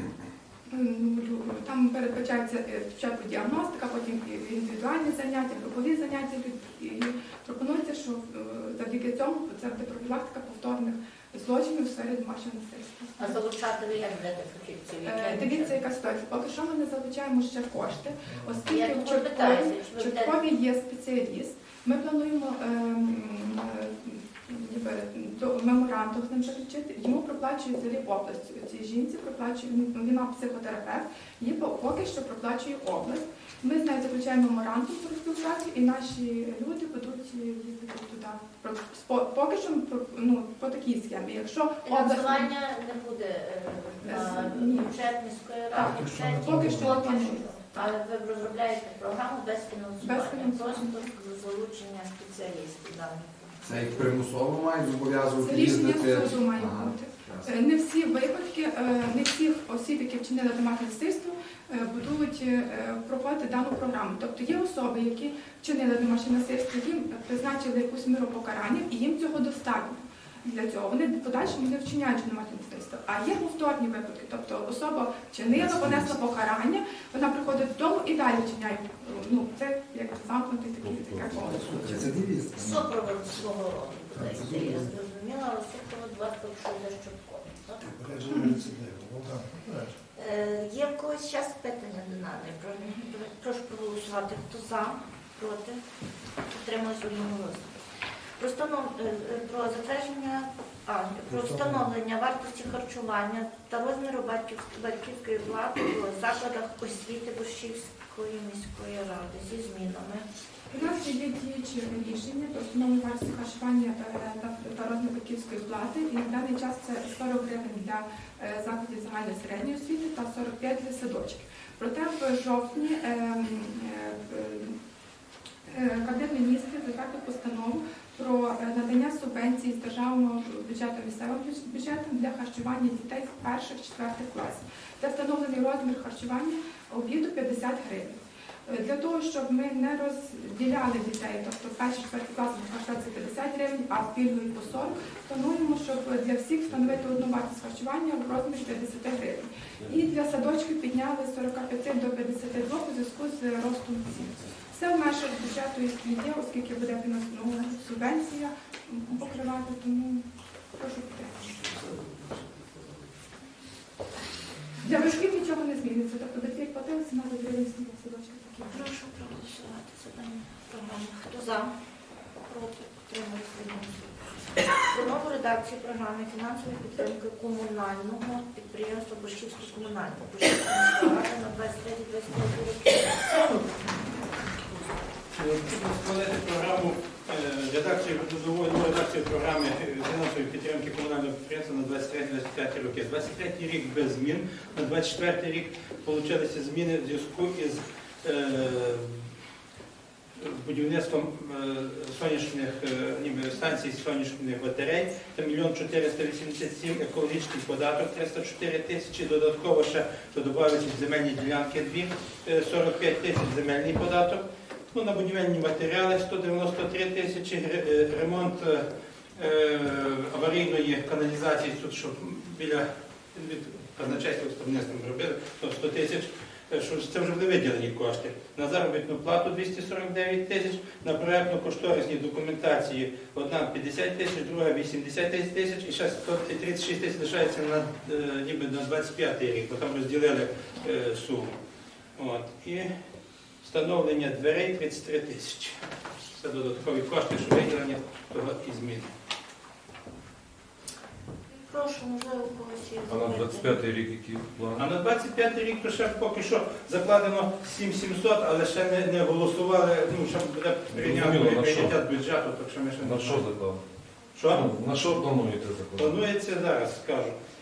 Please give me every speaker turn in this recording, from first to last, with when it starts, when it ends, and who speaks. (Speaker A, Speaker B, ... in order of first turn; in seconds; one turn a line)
Speaker A: 0.7-13.4
Speaker B: 13.2-15.8
Speaker A: 15.0-42.5
Speaker C: 18.3-18.7
Speaker B: 18.7-20.4
Speaker B: 41.9-54.1
Speaker A: 44.0-44.9
Speaker C: 45.7-47.0
Speaker A: 46.3-47.5
Speaker A: 50.0-51.0
Speaker C: 53.6-57.5
Speaker A: 55.4-82.0
Speaker C: 75.6-76.1
Speaker D: 80.8-81.4
Speaker C: 81.4-82.9
Speaker B: 82.5-87.8
Speaker C: 84.2-84.9
Speaker C: 87.8-90.0
Speaker B: 90.2-95.8
Speaker B: 96.5-97.8
Speaker B: 98.4-110.3
Speaker C: 101.3-101.8
Speaker A: 110.7-124.8
Speaker A: 125.7-161.7
Speaker A: 164.8-168.9
Speaker B: 168.7-171.7
Speaker B: 172.4-174.2
Speaker B: 174.8-183.4
Speaker E: 185.4-199.2
Speaker E: 200.4-241.5
Speaker E: 242.2-242.9
Speaker E: 243.6-245.8
Speaker E: 246.3-249.1
Speaker B: 251.7-253.8
Speaker D: 253.1-254.9
Speaker E: 254.8-263.5
Speaker D: 260.9-262.0
Speaker D: 263.0-263.8
Speaker E: 264.4-264.7
Speaker D: 264.4-266.2
Speaker E: 266.0-267.4